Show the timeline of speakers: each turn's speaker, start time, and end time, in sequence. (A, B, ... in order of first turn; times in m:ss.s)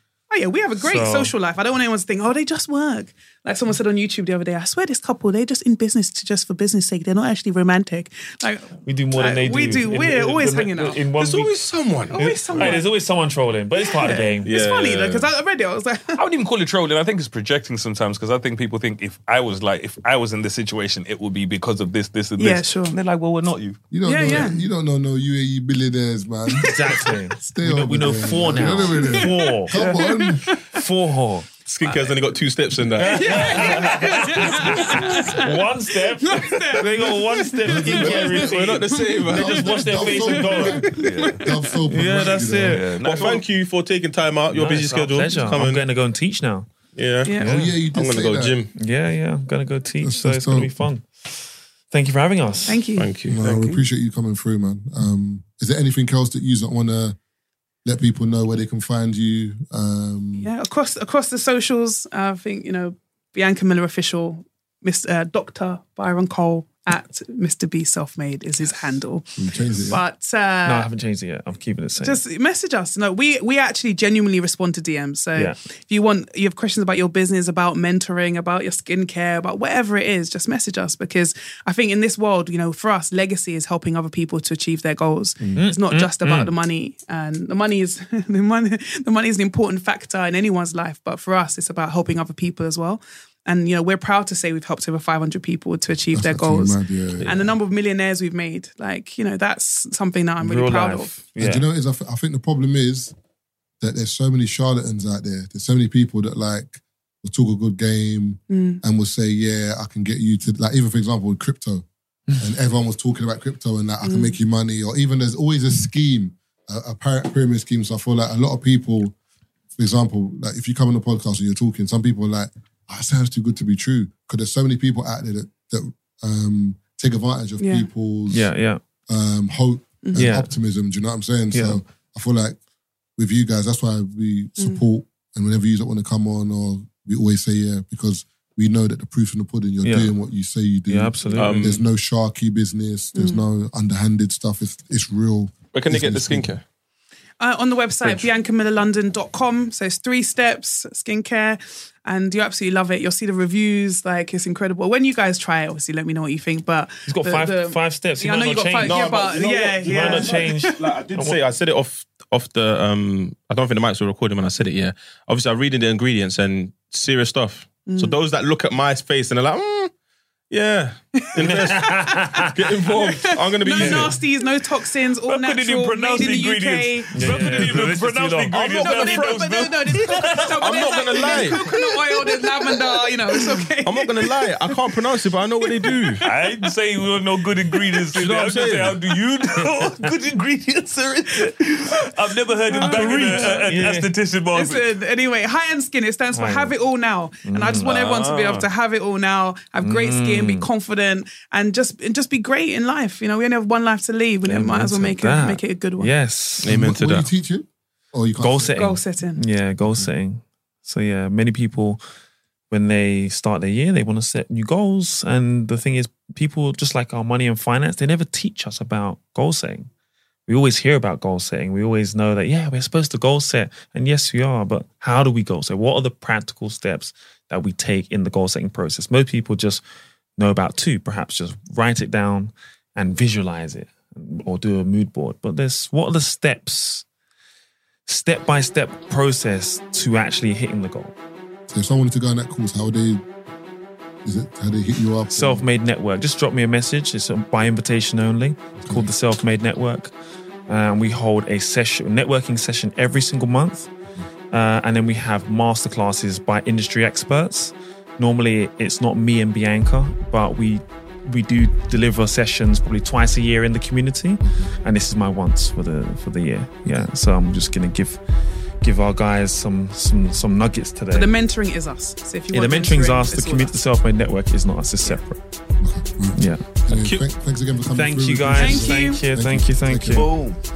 0:00.3-0:11.0 A
0:00.8-0:01.3 B
0:08.8-0:11.5 B
0:11.1-0:12.7 C
0:12.1-0:12.9 A
0:12.1-0:14.5 B
0:13.8-0:16.2 A
0:14.4-0:15.3 C
0:16.2-0:23.8 D
0:22.4-0:23.0 A
0:23.9-0:30.5 E
0:24.0-0:24.6 A
0:26.6-0:29.8 B
0:28.6-0:30.8 A
0:30.7-0:31.5 B
0:31.6-0:33.8 C
0:33.0-0:40.8 B
0:33.0-0:38.4 A
0:37.6-0:38.4 E
0:38.0-0:40.0 C
0:39.2-0:42.8 E
0:40.6-0:41.7 A
0:41.0-0:41.4 D
0:41.9-0:42.8 B
0:42.7-0:43.4 D
0:43.0-0:45.8 C
0:44.5-0:46.7 B
0:46.9-0:48.7 C
0:47.2-0:47.6 A
0:47.4-0:47.7 B
0:47.4-0:48.6 E
0:48.8-0:52.8 B
0:50.0-0:50.8 E
0:52.7-0:53.1 A
0:53.0-0:53.8 C
0:53.3-0:57.2 E
0:57.8-1:00.5 E
1:00.4-1:10.9 A
1:09.4-1:10.0 E
1:10.6-1:12.2 B
1:12.0-1:41.2 A
1:25.6-1:26.5 B
1:36.1-1:37.4 E
1:40.4-1:41.7 B
1:41.4-1:43.1 E
1:43.8-1:51.8 E
1:48.5-1:48.8 A
1:52.4-1:59.1 E
1:54.0-1:54.3 A
1:59.8-2:08.5 E
2:07.6-2:07.9 A
2:08.3-2:08.8 B
2:09.1-2:12.6 E
2:10.0-2:10.3 A
2:10.1-2:10.5 B
2:11.5-2:11.8 B
2:13.2-2:26.5 E
2:19.8-2:20.1 B
2:20.9-2:21.7 B
2:21.3-2:21.5 A
2:21.3-2:21.8 C
2:23.1-2:23.4 A
2:25.7-2:26.6 C
2:27.4-2:40.7 A
2:37.0-2:39.0 B
2:38.8-2:49.9 C
2:39.8-2:41.4 B
2:47.8-2:48.2 A
2:50.5-2:54.2 C
2:51.4-2:52.5 B
2:51.4-2:57.8 A
2:53.7-2:54.2 B
2:55.3-3:03.5 D
2:57.1-2:58.6 B
2:58.5-2:59.5 C
2:58.6-3:05.0 A
3:00.5-3:01.7 C
3:03.8-3:06.2 C
3:05.6-3:06.5 A
3:06.2-3:14.9 D
3:08.1-3:09.0 C
3:11.4-3:11.9 A
3:12.8-3:13.9 A
3:12.8-3:13.6 C
3:13.6-3:14.1 B
3:14.5-3:26.1 A
3:16.3-3:16.7 B
3:17.4-3:18.0 B
3:17.8-3:18.7 D
3:19.8-3:20.7 B
3:24.4-3:26.8 B
3:26.6-3:27.3 C
3:26.6-3:28.8 E
3:28.4-3:32.0 B
3:28.7-3:29.4 A
3:32.7-3:39.9 B
3:40.5-3:49.8 B
3:50.4-3:57.0 B
3:58.1-4:01.1 B
4:01.7-4:03.2 E
4:04.2-4:05.6 E
4:05.3-4:10.1 B
4:08.8-4:09.1 E
4:10.7-4:13.9 B
4:14.5-4:28.2 B
4:24.4-4:24.7 E
4:28.8-4:31.3 B
4:31.1-4:33.8 A
4:32.5-4:35.4 B
4:35.8-4:40.3 E
4:36.3-4:36.6 B
4:36.9-4:37.2 C
4:37.9-4:40.2 B
4:38.6-4:39.2 A
4:40.1-4:40.6 D